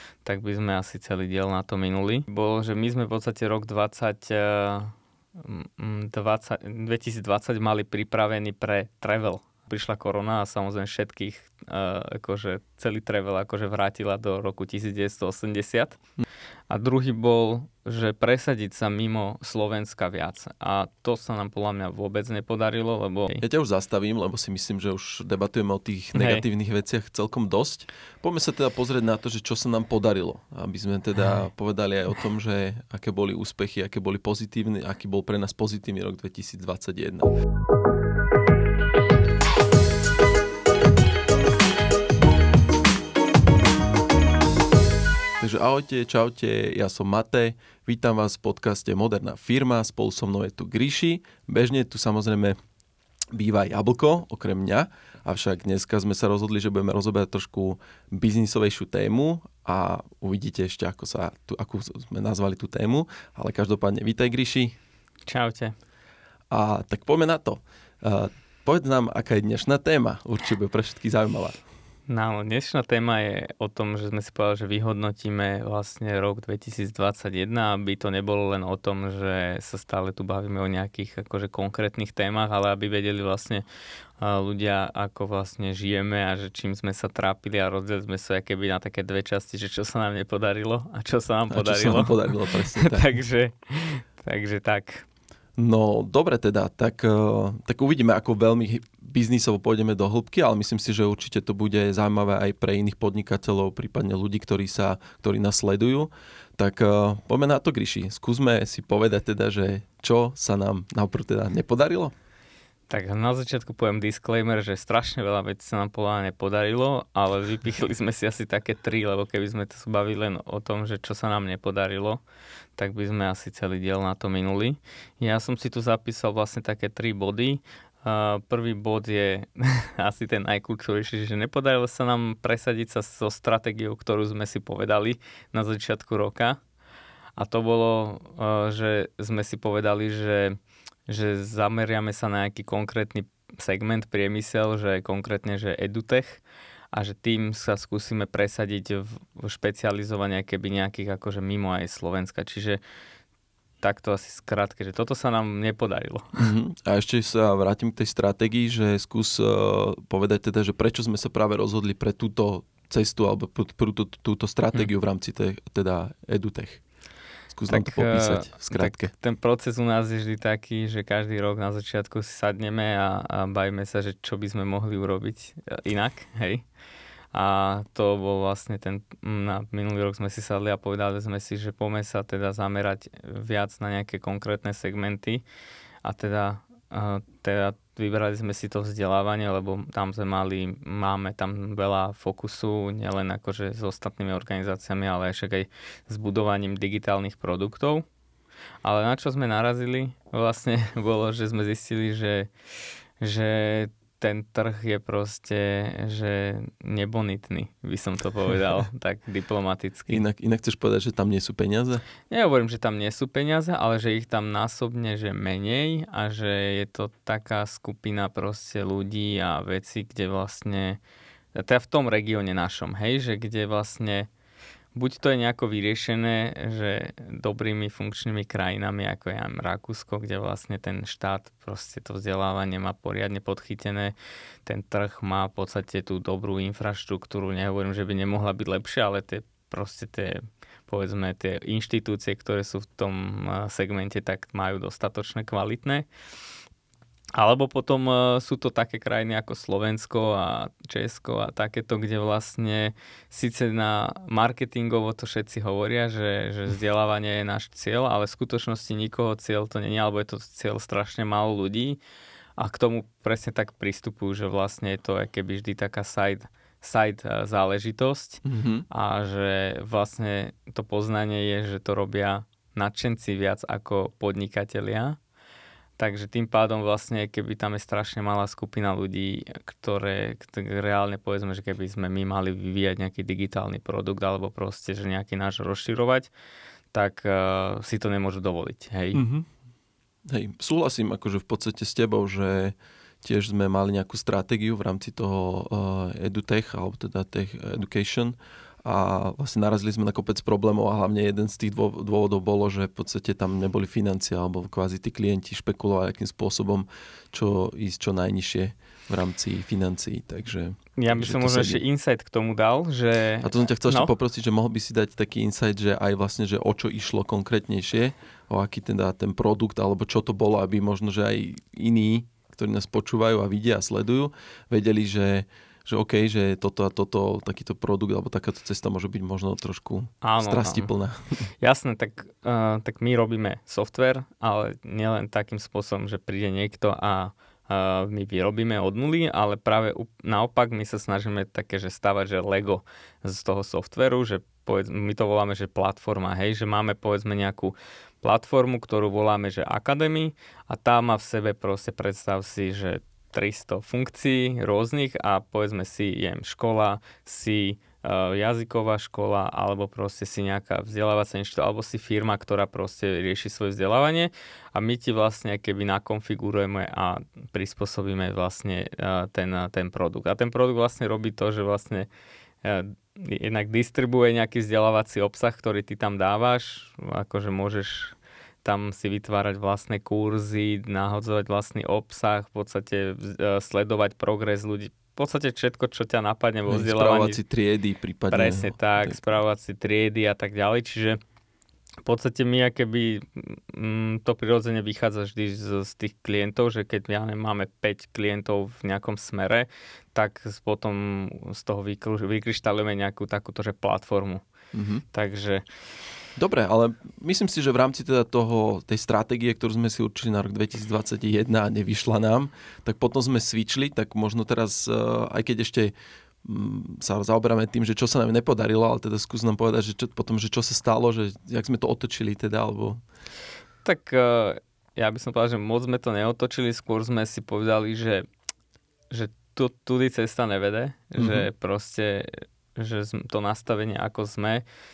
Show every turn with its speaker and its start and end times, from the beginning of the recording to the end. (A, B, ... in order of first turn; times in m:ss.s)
0:00.2-0:16.0 A
0:16.7-0:23.4 A
0:23.4-0:37.3 B
0:26.1-0:26.4 A
0:45.4-0:52.6 B
0:53.3-1:04.7 B
1:05.3-1:05.7 A
1:06.5-1:11.6 B
1:12.1-1:23.6 A
1:24.2-1:35.0 A
1:31.5-1:33.2 B
1:35.6-1:52.1 B
1:52.9-2:02.2 A
2:02.8-2:16.6 A
2:17.4-2:26.4 A
2:26.9-2:32.8 A
2:33.8-2:36.5 A
2:36.4-2:46.8 B
2:47.5-2:49.1 B
2:47.7-2:56.6 A
2:57.3-3:05.4 A
3:06.0-3:18.0 A
3:18.8-3:22.5 A
3:23.2-3:30.2 A
3:30.1-3:32.0 B
3:32.3-3:41.0 A
3:41.5-3:44.3 A
3:44.9-3:54.1 A
3:54.6-4:06.1 A
4:07.3-4:22.0 A
4:22.6-4:35.2 A
4:28.4-4:28.8 B
4:36.0-4:46.3 A
4:46.9-4:49.2 A
4:49.1-4:49.5 B
4:50.3-5:11.8 B
5:11.0-5:14.1 A
5:13.4-5:31.5 B
5:30.2-5:30.9 A
5:31.6-6:12.1 A
6:12.6-6:27.4 A
6:26.7-6:29.2 B
6:28.3-6:31.2 A
6:32.0-6:44.4 A
6:44.7-6:45.0 B
6:45.1-6:45.6 A
6:46.4-7:03.0 B
7:03.8-7:08.2 A
7:09.1-7:14.6 A
7:11.2-7:11.5 B